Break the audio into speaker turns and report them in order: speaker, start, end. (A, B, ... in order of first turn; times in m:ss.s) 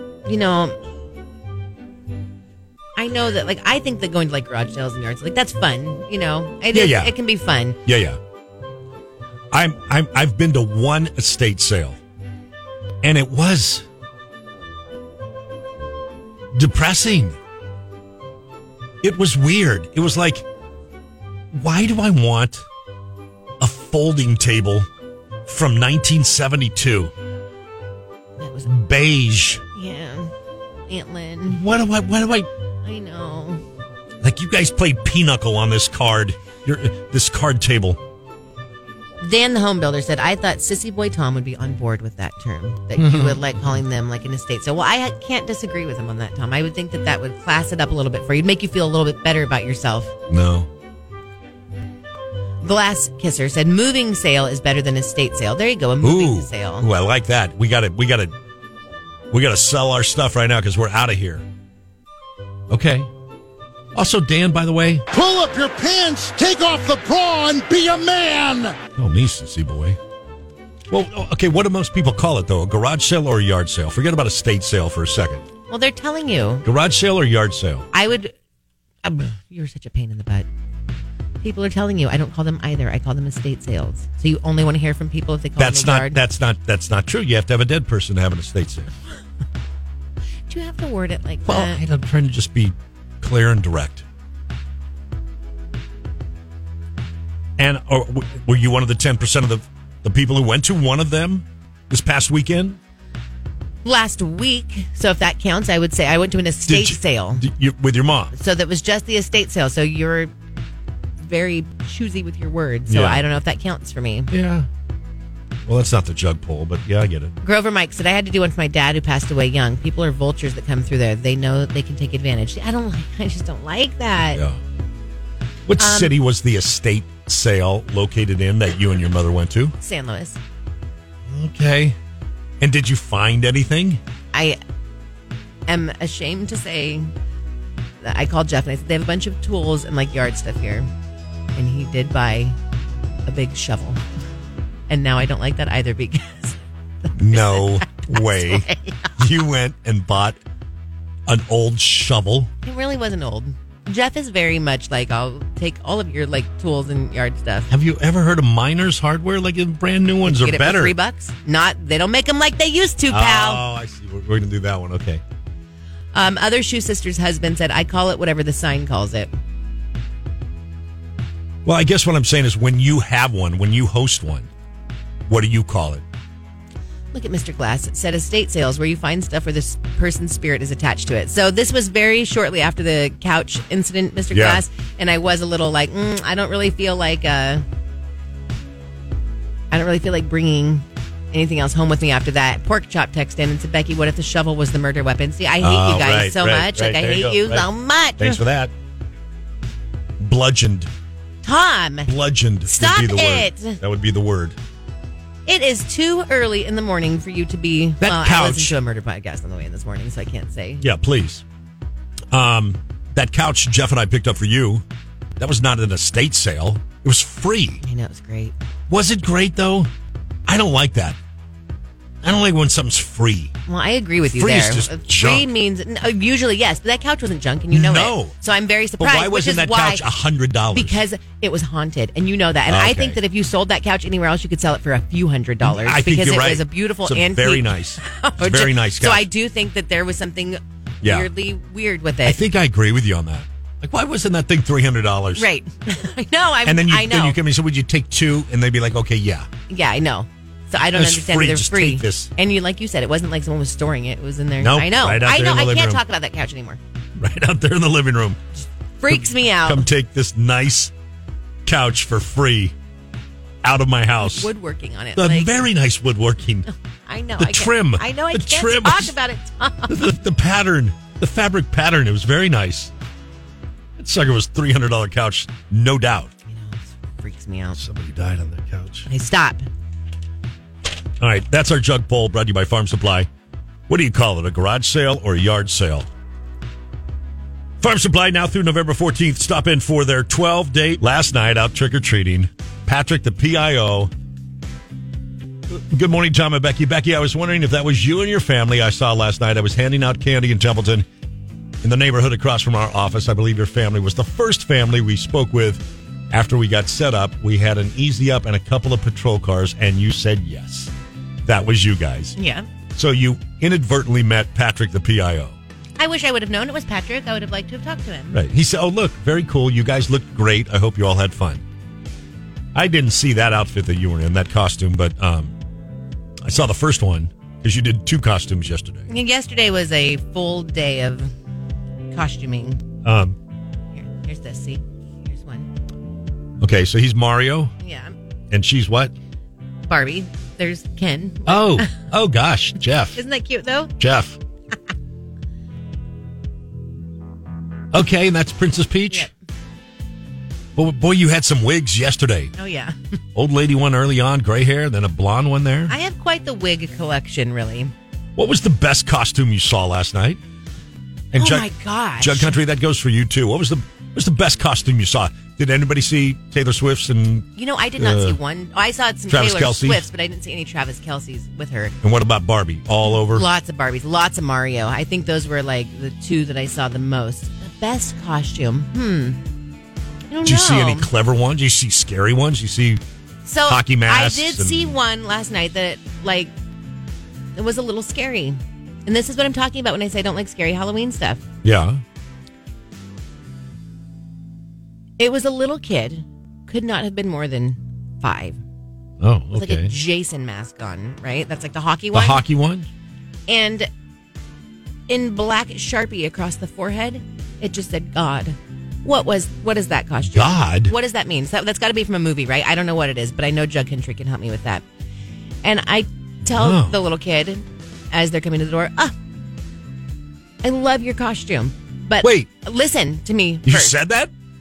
0:00.2-0:00.8 A
0:03.0-0:07.8 A
0:06.7-0:07.1 B
0:07.8-0:08.2 B
0:09.5-0:12.0 B
0:13.0-0:13.8 B
0:16.5-0:17.4 B
0:19.0-0:20.4 B
0:21.5-0:22.6 B
0:23.6-0:24.9 B
0:25.4-0:27.1 B
0:28.4-0:28.7 A
0:28.7-0:29.6 B
0:29.7-0:30.3 A
0:30.9-0:31.6 A
0:31.5-0:32.5 B
0:32.8-0:33.6 A
0:34.2-0:38.0 B
0:39.2-0:50.1 A
0:43.0-0:43.7 B
0:50.3-0:50.7 B
0:52.6-0:56.9 A
0:56.0-0:58.3 B
0:59.3-1:01.4 B
1:02.7-1:03.1 B
1:03.9-1:05.0 B
1:05.1-1:08.7 C
1:09.0-1:10.0 B
1:10.9-1:15.4 B
1:15.7-1:16.6 A
1:16.6-1:17.8 B
1:17.9-1:18.3 A
1:19.0-1:20.5 A
1:21.4-1:26.2 A
1:25.6-1:28.9 B
1:30.5-1:31.8 A
1:31.4-1:34.0 B
1:37.6-1:42.8 B
1:43.8-1:47.4 A
1:46.6-1:48.3 B
1:48.3-1:50.3 A
1:51.2-1:54.3 A
1:52.9-1:53.2 B
1:54.3-1:54.7 B
1:55.6-1:57.4 B
1:57.4-2:04.4 A
2:04.3-2:04.6 B
2:05.7-2:09.7 B
2:05.8-2:06.2 A
2:09.8-2:10.4 A
2:11.3-2:12.0 B
2:12.6-2:14.0 B
2:14.3-2:14.6 A
2:15.7-2:17.1 A
2:18.0-2:20.9 A
2:21.5-2:22.6 A
2:23.2-2:24.0 A
2:24.9-2:29.1 A
2:27.2-2:30.4 B
2:31.3-2:32.5 B
2:32.6-2:37.7 A
2:37.7-2:41.0 B
2:40.2-2:43.6 A
2:43.1-2:45.2 B
2:46.1-2:49.3 A
2:51.6-2:54.5 B
2:55.3-2:56.0 B
2:57.1-3:07.6 A
3:04.3-3:04.6 B
3:09.7-3:18.4 A
3:15.6-3:18.7 B
3:20.2-3:20.9 B
3:21.4-3:22.1 A
3:22.0-3:24.6 B
3:22.6-3:23.8 A
3:25.4-3:30.8 A
3:28.0-3:28.8 B
3:30.8-3:31.4 B
3:32.3-3:34.8 B
3:35.4-3:37.8 B
3:37.8-3:38.5 A
3:38.9-3:39.9 B
3:40.4-3:41.2 B
3:42.2-3:43.5 B
3:43.6-3:50.0 A
3:44.2-3:45.5 B
3:47.7-3:48.3 B
3:49.0-3:51.0 B
3:50.7-4:02.4 A
3:52.7-3:53.2 B
3:55.6-3:59.3 B
4:01.0-4:01.3 B
4:02.2-4:05.5 B
4:05.4-4:07.4 A
4:06.6-4:09.5 B
4:09.7-4:16.8 A
4:10.9-4:12.3 B
4:14.6-4:16.0 B
4:17.2-4:18.4 B
4:19.0-4:19.8 A
4:19.1-4:20.9 B
4:21.6-4:22.7 B
4:23.6-4:24.5 B
4:24.2-4:25.6 A
4:25.2-4:26.7 B
4:27.1-4:30.0 A
4:27.4-4:29.1 B
4:29.9-4:32.9 B
4:34.0-4:36.3 B
4:36.4-4:37.8 A
4:37.8-4:39.1 B
4:39.1-4:39.7 A
4:41.2-4:43.3 B
4:43.9-4:46.1 B
4:47.8-4:54.1 B
4:55.7-5:01.1 B
5:01.8-5:10.9 B
5:11.4-5:12.4 B
5:12.4-5:12.7 A
5:12.9-5:15.6 B
5:16.0-5:18.4 A
5:18.3-5:21.6 B
5:22.7-5:25.5 B
5:26.4-5:29.1 B
5:29.1-5:31.3 A
5:32.1-5:32.8 A
5:33.0-5:33.4 B
5:33.9-5:35.7 A
5:36.6-5:37.7 B
5:37.8-5:38.1 A
5:38.5-5:39.1 B
5:39.9-5:42.0 A
5:41.4-5:43.2 B
5:43.1-5:43.9 A
5:44.0-5:44.4 B
5:47.9-5:49.3 B
5:50.8-5:52.5 B
5:52.6-5:53.0 A
5:53.3-5:55.9 B
5:55.9-5:57.9 A
5:58.4-6:00.4 B
6:01.3-6:01.7 B
6:01.3-6:02.6 A
6:02.2-6:08.4 B
6:07.6-6:11.9 A
6:09.3-6:10.0 B
6:12.0-6:13.4 B
6:13.1-6:19.4 A
6:20.3-6:21.1 A
6:20.4-6:23.0 B
6:23.4-6:26.5 A
6:23.6-6:24.9 B
6:27.6-6:31.4 A
6:31.6-6:32.0 B
6:35.2-6:38.6 A
6:39.2-6:39.9 B
6:39.5-6:42.4 A
6:42.1-6:42.9 B
6:43.5-6:43.9 A
6:45.1-6:54.8 A
6:50.3-6:50.9 B
6:55.6-6:59.1 A
6:56.4-6:57.0 B
7:00.6-7:04.0 A
7:02.2-7:02.5 B
7:03.6-7:04.3 B